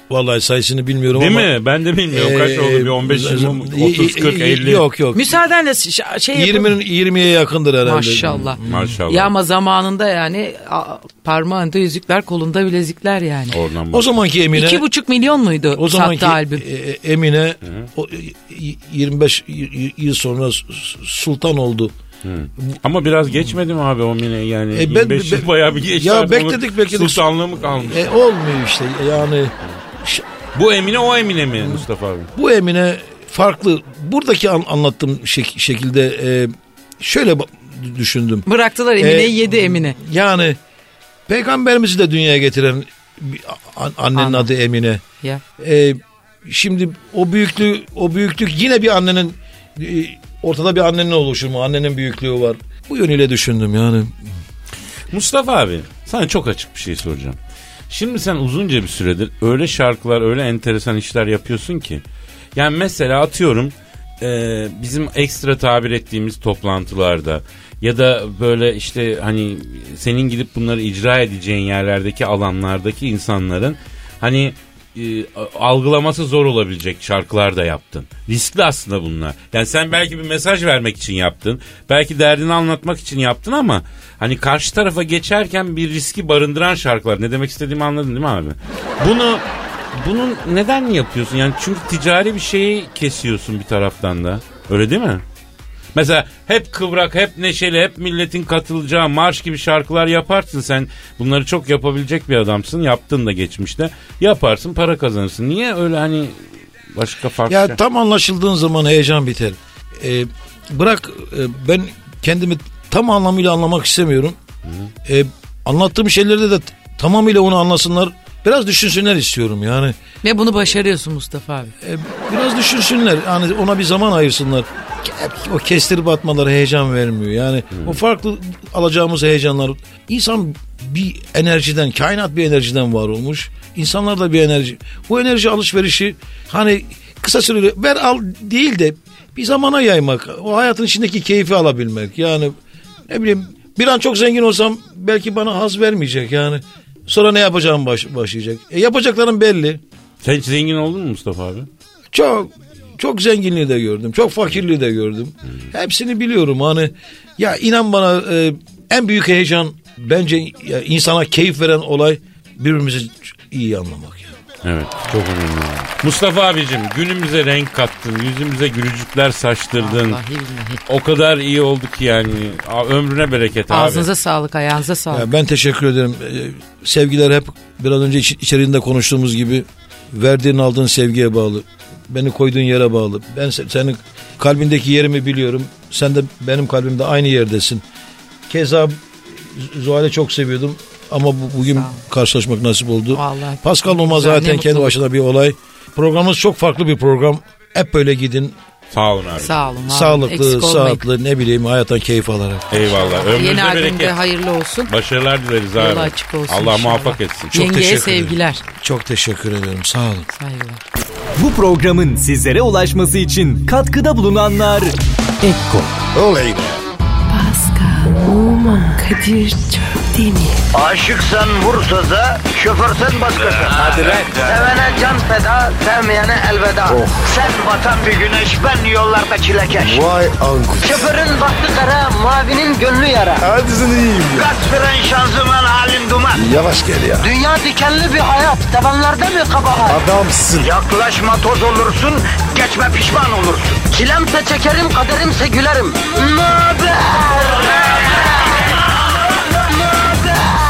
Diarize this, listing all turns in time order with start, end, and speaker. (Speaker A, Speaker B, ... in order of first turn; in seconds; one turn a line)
Speaker A: 0.1-1.5
Speaker B: 1.1-4.8
Speaker A: 2.1-5.4
Speaker C: 5.2-6.8
Speaker A: 6.3-9.0
Speaker C: 7.8-13.6
Speaker B: 8.6-9.3
Speaker B: 13.5-14.1
Speaker A: 13.9-14.8
Speaker C: 14.6-16.6
Speaker A: 15.8-21.9
Speaker B: 22.2-28.1
Speaker A: 24.7-30.2
Speaker B: 30.6-32.3
Speaker A: 32.4-38.5
Speaker C: 38.5-40.0
Speaker A: 39.0-40.6
Speaker A: 41.3-45.0
Speaker C: 44.2-44.5
Speaker A: 45.6-54.3
Speaker B: 55.1-57.4
Speaker B: 57.9-62.0
Speaker B: 62.5-95.2
Speaker B: 96.0-107.8
Speaker A: 107.5-114.4
Speaker A: 115.1-120.0
Speaker C: 120.2-121.7
Speaker A: 121.8-142.6
Speaker A: 143.1-149.8
Speaker B: 150.2-151.7
Speaker A: 152.1-164.3
Speaker B: 164.6-170.2
Speaker C: 169.8-170.8
Speaker B: 170.9-174.1
Speaker C: 173.7-175.3
Speaker A: 175.1-187.8
Speaker A: 188.5-198.6
Speaker C: 191.7-192.0
Speaker C: 193.1-195.0
Speaker B: 198.9-199.5
Speaker C: 199.4-201.0
Speaker A: 199.9-202.8
Speaker B: 202.7-204.2
Speaker C: 202.8-204.9
Speaker B: 204.9-207.5
Speaker C: 205.8-208.6
Speaker A: 207.5-210.3
Speaker C: 210.3-210.8
Speaker D: 211.4-216.0
Speaker E: 216.1-216.8
Speaker F: 217.3-220.7
Speaker G: 220.7-230.1
Speaker E: 223.7-224.3
Speaker E: 226.9-227.2
Speaker E: 229.8-230.9
Speaker G: 230.8-233.5
Speaker E: 233.4-234.5
Speaker G: 234.3-236.5
Speaker E: 236.3-237.3
Speaker G: 237.2-240.0
Speaker E: 239.9-240.7
Speaker G: 240.6-248.0